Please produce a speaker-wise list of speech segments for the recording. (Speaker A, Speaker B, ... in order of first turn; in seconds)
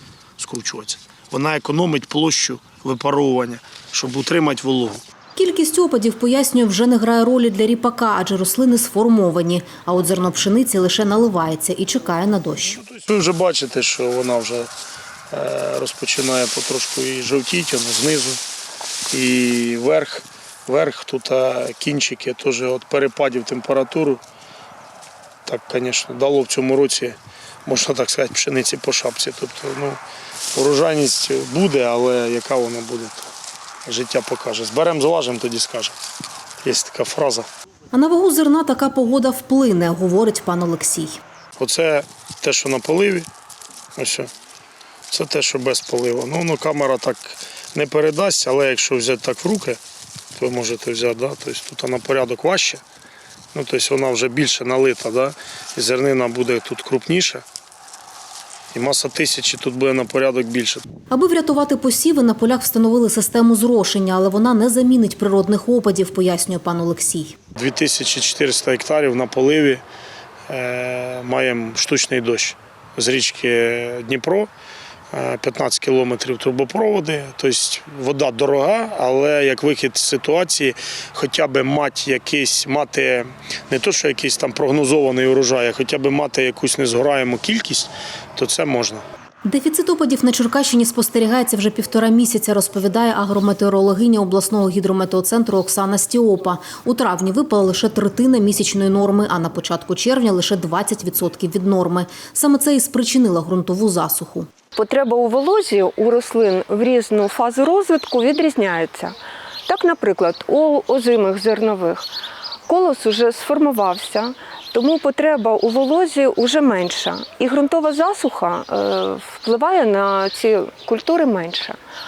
Speaker A: 0.4-5.0, 12.7-14.7, 15.3-18.4, 19.1-24.2, 25.4-30.0, 30.5-33.3, 33.8-35.9, 36.6-37.5, 41.6-43.3, 44.0-44.3, 45.1-49.8, 50.3-52.8, 53.5-57.4, 58.7-60.8, 67.5-69.8, 70.5-74.5, 75.1-89.0
Speaker B: 5.3-12.8, 37.9-41.2, 61.1-67.4, 89.4-104.5
Speaker C: 104.7-109.2, 109.7-112.1, 112.7-121.8